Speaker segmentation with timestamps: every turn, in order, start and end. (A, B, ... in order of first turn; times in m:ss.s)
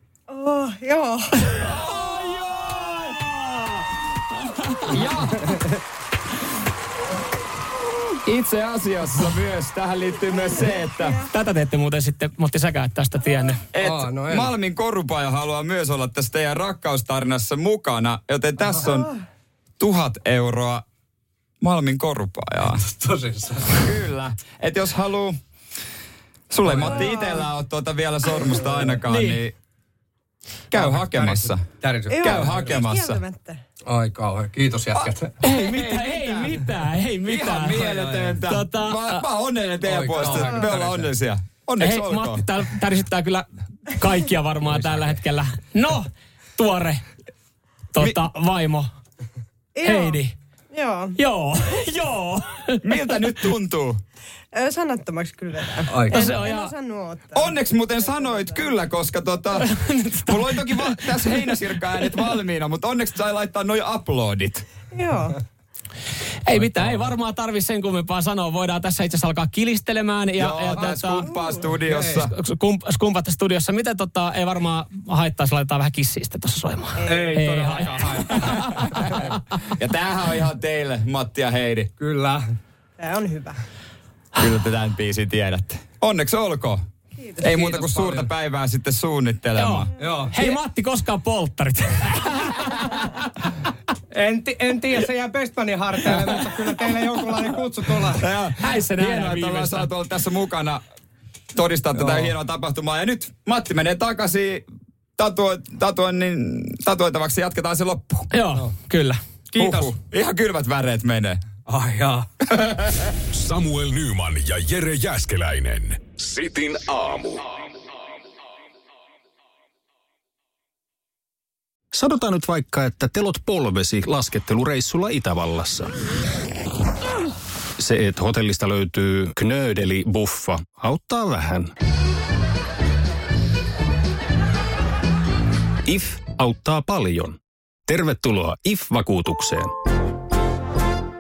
0:00.3-0:01.2 A
0:01.5-0:03.4 B
0:04.7-0:05.0 B
0:04.9-0:05.5 C
0:08.2-0:11.2 C
0:11.3-0:13.6 B
0:13.7-0:19.1 C
0:13.8-0:14.5 D
0:19.8-0:20.8 C
0:21.6-0:22.8 C
0:22.7-0:23.9 D
0:23.8-0:25.4 C
0:26.5-0:29.5 C
0:26.6-0:27.0 D
0:26.8-0:27.5 A
0:29.1-0:29.4 B
0:30.7-0:33.2 C
0:30.7-0:32.7 D
0:32.1-0:33.6 A
0:33.9-0:35.4 D
0:35.0-0:36.6 C
0:35.4-0:37.9 B
0:37.3-0:42.4 C
0:37.8-0:38.4 D
0:38.4-0:39.2 B
0:39.8-0:41.1 D
0:41.8-0:47.0 B
0:44.7-0:45.2 D
0:47.9-0:48.9 B
0:49.8-0:50.2 A
0:49.8-0:50.4 B
0:50.7-0:51.2 A
0:51.2-0:53.0 B
0:52.8-0:54.0 C
0:54.5-0:58.7 A
0:55.9-0:56.2 D
0:56.1-0:56.7 B
0:57.3-1:04.7 C
0:59.6-1:01.4 B
1:04.9-1:05.4 A
1:06.5-1:11.4 B
1:10.4-1:12.3 C
1:10.7-1:11.0 D
1:11.4-1:11.7 A
1:11.8-1:12.2 D
1:12.3-1:19.3 B
1:17.0-1:19.2 D
1:18.5-1:21.9 C
1:22.0-1:22.4 D
1:23.0-1:23.6 A
1:24.4-1:26.8 C
1:27.2-1:27.5 A
1:27.4-1:29.9 C
1:27.5-1:28.3 D
1:29.6-1:33.0 B
1:30.0-1:30.6 D
1:34.1-1:38.2 D
1:38.1-1:40.8 C
1:38.6-1:39.9 B
1:41.5-1:44.6 C
1:42.0-1:42.3 D
1:45.2-1:48.3 C
1:48.3-1:49.2 B
1:49.5-1:49.9 D
1:49.6-1:51.4 C
1:51.7-1:52.3 D
1:52.5-1:53.1 C
1:53.3-1:57.4 E
2:01.9-2:05.9 F
2:07.8-2:11.7 F
2:15.9-2:19.7 F